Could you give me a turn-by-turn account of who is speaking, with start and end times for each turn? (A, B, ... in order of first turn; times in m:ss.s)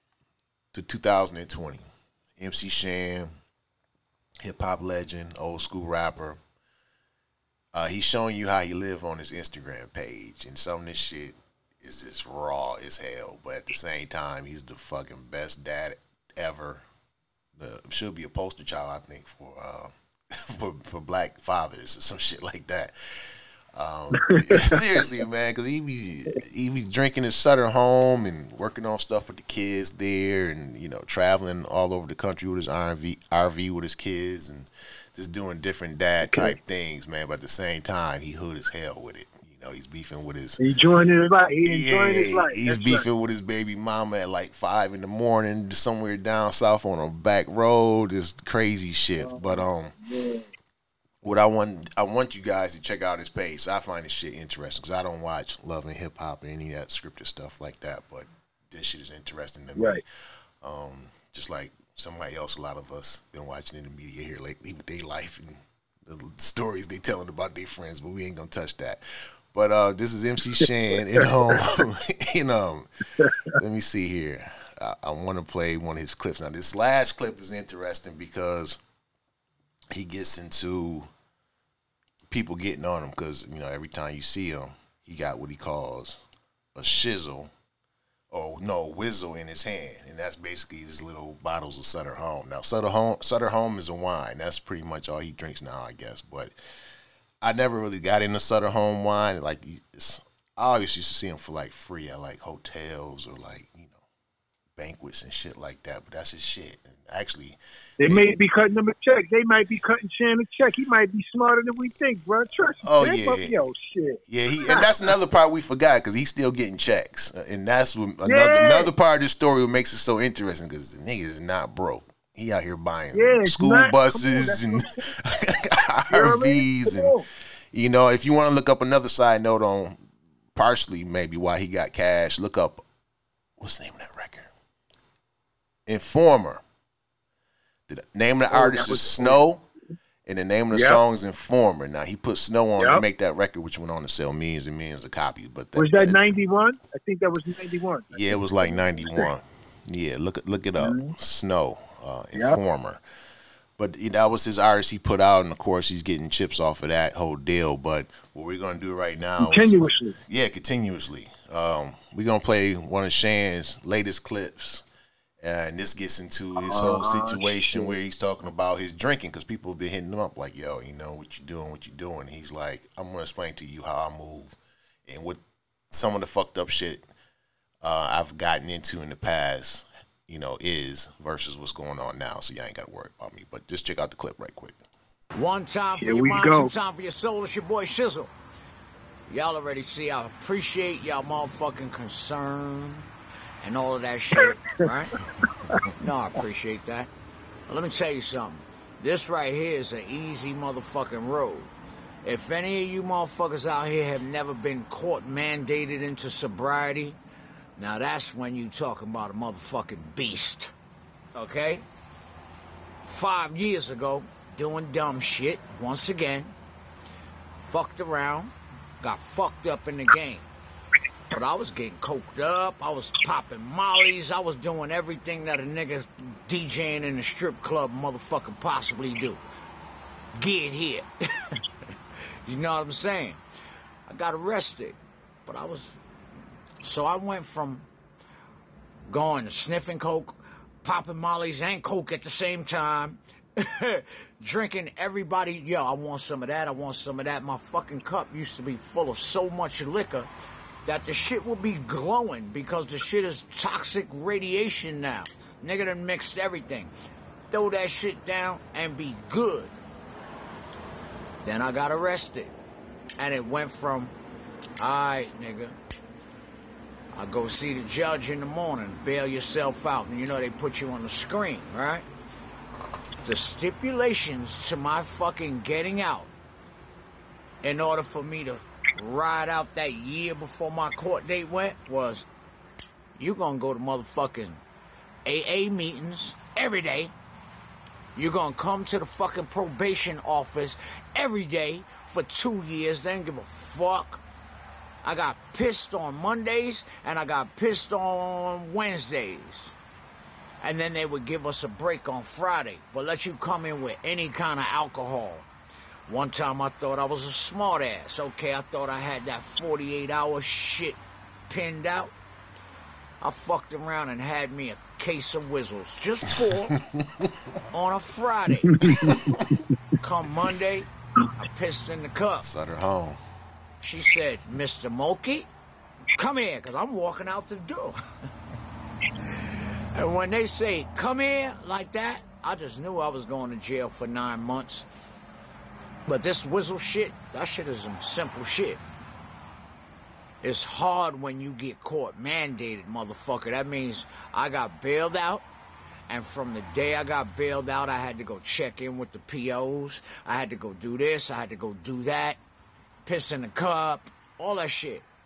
0:00.7-0:03.3 A
0:04.4-0:06.4 A
0:07.7-0:16.8 A
0:17.6-0:40.6 A
0:24.1-0:24.8 B
0:36.2-0:36.6 B
0:40.6-0:43.1 B
0:41.6-0:49.9 A
0:49.2-0:50.5 B
0:51.2-1:00.0 A
0:59.8-1:00.0 B
1:00.6-1:12.9 A
1:11.2-1:11.6 B
1:13.2-1:13.5 B
1:13.5-1:18.8 A
1:19.9-1:21.1 A
1:22.3-1:26.2 A
1:26.8-1:27.5 A
1:28.3-1:36.6 A
1:37.4-1:44.0 A
1:44.8-1:48.3 A
1:48.0-1:54.9 B
1:52.8-1:53.6 A
1:54.3-2:07.1 A
1:58.3-1:58.9 B
2:03.1-2:05.1 B
2:06.1-2:07.3 B
2:07.7-2:12.8 A
2:13.6-2:14.5 A
2:15.9-2:16.6 A
2:17.9-2:19.6 A
2:18.5-2:19.4 B
2:20.3-2:26.4 A
2:20.7-2:21.0 B
2:22.8-2:23.0 B
2:25.8-2:29.3 B
2:28.1-2:33.0 A
2:30.8-2:31.1 B
2:33.8-2:44.8 A
2:39.4-2:40.2 B
2:45.4-2:57.1 A
2:46.6-2:47.9 B
2:57.8-3:04.8 A
3:05.3-3:08.3 C
3:06.0-3:06.7 B
3:09.3-3:13.1 C
3:13.6-3:15.2 C
3:15.4-3:15.8 B
3:16.0-3:17.1 C
3:17.7-3:21.7 C
3:22.2-3:27.2 C
3:27.8-3:30.7 C
3:31.4-3:31.8 C
3:33.1-3:36.6 C
3:37.7-3:40.5 C
3:41.3-3:49.4 C
3:50.4-3:51.1 C
3:52.5-3:53.4 C
3:54.1-3:56.0 C
3:56.8-3:57.9 C
3:59.1-4:10.3 C
4:10.8-4:16.9 C
4:17.5-4:19.8 C
4:21.4-4:22.5 C
4:23.2-4:24.1 C
4:24.8-4:25.8 C
4:27.2-4:32.1 C
4:33.2-4:36.3 C
4:37.6-4:42.3 C
4:43.2-4:44.6 C
4:45.3-4:47.1 C
4:48.2-4:54.2 C
4:55.0-4:59.8 C
5:00.6-5:05.5 C
5:06.1-5:12.1 C
5:13.2-5:16.7 C
5:17.0-5:17.3 A
5:17.7-5:19.1 C
5:18.7-5:19.6 B
5:18.9-5:19.4 A
5:20.0-5:22.5 C
5:22.4-5:23.2 A
5:23.8-5:25.5 C
5:26.2-5:28.0 C
5:30.0-5:34.9 C
5:36.1-5:38.8 C
5:40.4-5:45.5 C
5:46.1-5:52.4 C
5:53.0-5:55.1 C